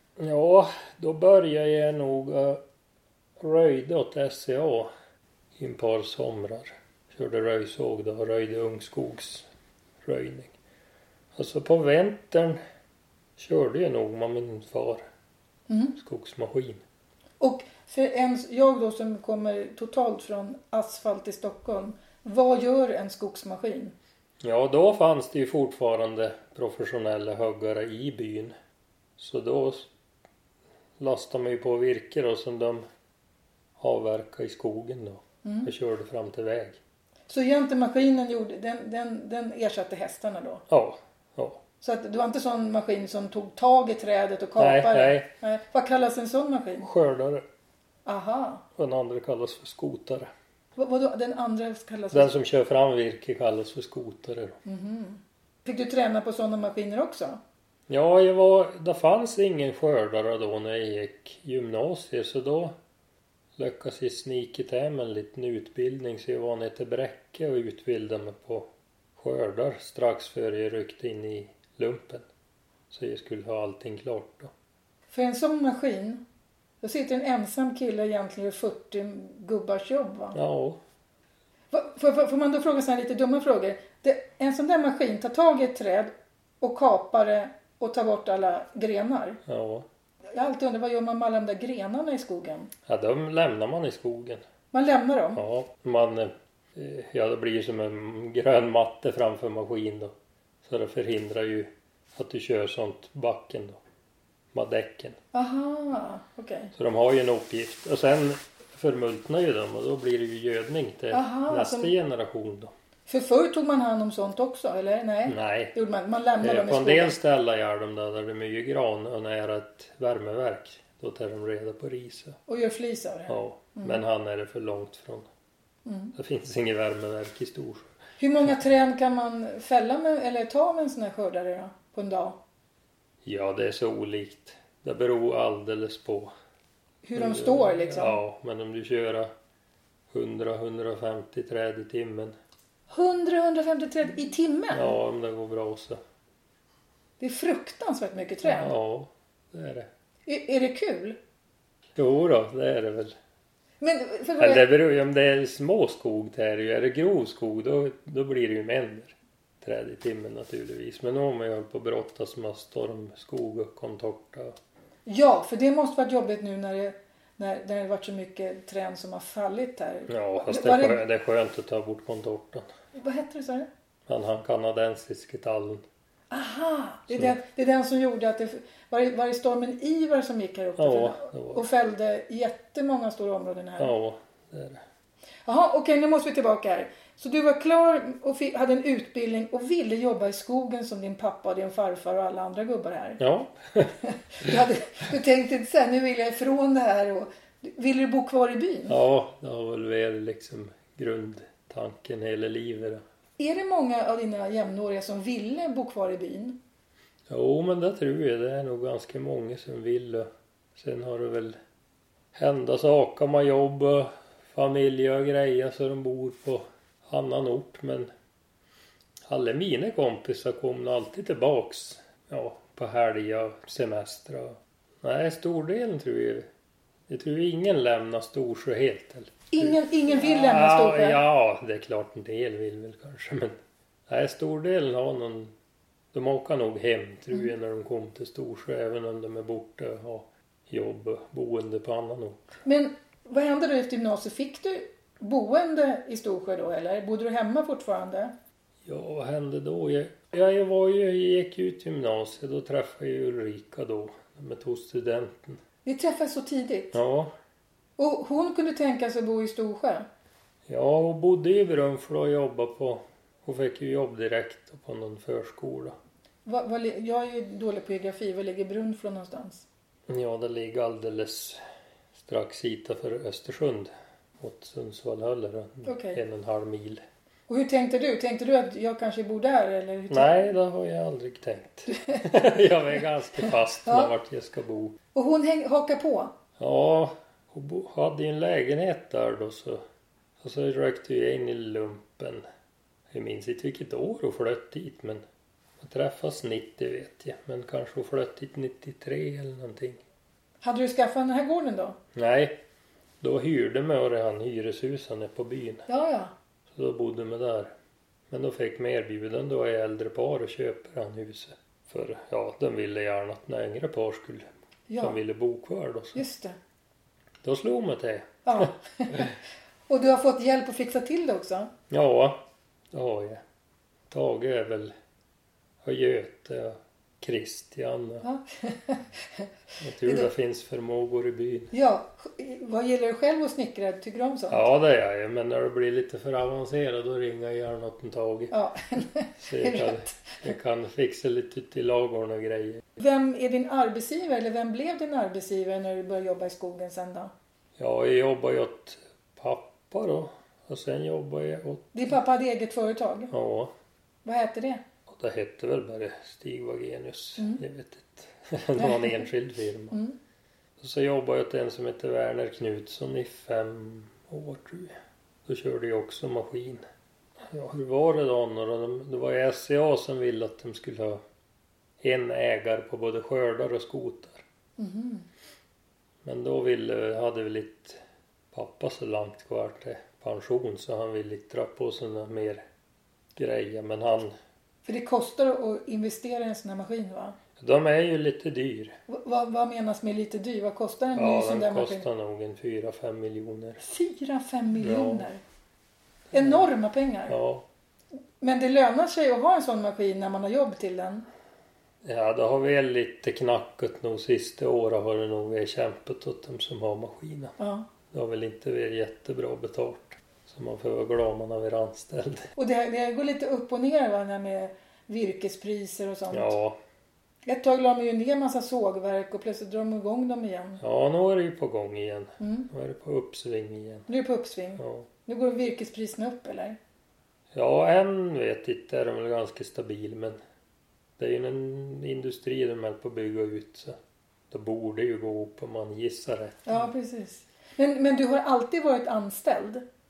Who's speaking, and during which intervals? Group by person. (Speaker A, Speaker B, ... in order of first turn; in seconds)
Speaker A: 0.2-2.6, 3.4-4.9, 5.6-9.5, 10.0-10.6, 11.3-12.6, 13.4-15.0, 16.0-16.8, 24.4-28.5, 29.2-29.9, 31.0-32.8, 33.8-36.8, 40.7-41.6, 44.6-45.3, 46.8-47.5, 48.8-50.3, 52.1-54.6, 57.9-62.8, 63.6-72.3, 72.9-74.5, 80.3-80.8, 89.5-89.9, 92.9-94.4, 95.3-100.1, 100.6-103.8, 104.5-105.2, 106.7-112.7, 115.3-115.8, 116.4-122.4, 123.3-125.3, 126.2-127.9, 133.2-136.3, 137.2-139.3, 140.1-142.3, 144.7-146.0, 148.4-149.9, 152.0-153.1, 154.4-164.6, 170.1-172.7, 174.1-175.8, 180.8-181.7, 183.8-184.8, 193.2-194.6, 198.9-203.0, 207.3-211.6, 212.3-218.1, 219.3-226.5, 227.1-233.6, 234.1-235.5, 236.1-242.6, 248.9-255.6, 256.9-257.3, 260.7-265.9, 270.1-271.6, 272.2-277.0, 280.1-285.0, 286.6-289.8, 290.4-292.4, 293.1-295.2, 295.8-300.0, 302.1-302.6, 303.2-305.9, 306.7-307.7, 308.3-314.5, 315.0-316.2, 317.4-319.4, 321.9-322.4, 322.9-323.4, 324.1-324.9, 325.8-328.2, 329.8-331.7, 334.5-338.5, 339.4-342.8, 347.8-351.9, 353.3-353.7, 355.1-360.0, 360.8-366.8, 367.4-371.2, 372.0-374.4, 376.2-378.0, 378.5-382.6, 383.4-384.3, 387.6-388.9, 391.1-393.8, 394.8-395.3, 396.3-396.7, 397.3-397.7, 402.0-407.5, 408.1-412.5, 416.3-416.8, 420.8-424.1, 424.8-425.1, 427.5-430.4, 431.2-434.0, 434.5-436.9
Speaker B: 15.7-16.0, 17.4-23.9, 35.4-35.7, 37.3-40.6, 41.8-46.9, 48.1-48.6, 50.8-52.3, 54.6-57.4, 75.1-76.2, 76.8-80.4, 81.7-89.4, 90.3-92.7, 94.7-95.4, 105.3-106.7, 111.1-111.9, 113.1-117.2, 122.5-124.0, 125.8-126.2, 128.2-132.4, 137.0-138.2, 142.9-145.0, 147.2-148.8, 150.3-151.2, 153.8-154.6, 165.1-171.0, 172.9-173.7, 176.3-183.9, 185.5-193.2, 194.0-199.0, 203.4-206.6, 229.5-231.2, 242.7-248.3, 255.8-257.0, 258.0-260.1, 266.5-269.6, 275.9-276.2, 277.5-280.5, 281.9-282.2, 283.9-284.1, 285.1-286.3, 300.6-302.0, 305.9-306.3, 314.9-315.2, 316.1-316.6, 318.4-319.4, 319.9-321.7, 328.2-330.3, 331.7-334.7, 338.5-340.4, 343.0-347.3, 351.9-353.3, 354.2-354.8, 358.8-359.2, 374.8-375.3, 384.9-387.4, 389.1-392.1, 393.8-395.4, 396.3-397.4, 398.4-401.3, 407.6-407.9, 412.6-416.6, 417.5-420.8, 422.4-422.7, 424.1-426.8, 436.7-439.8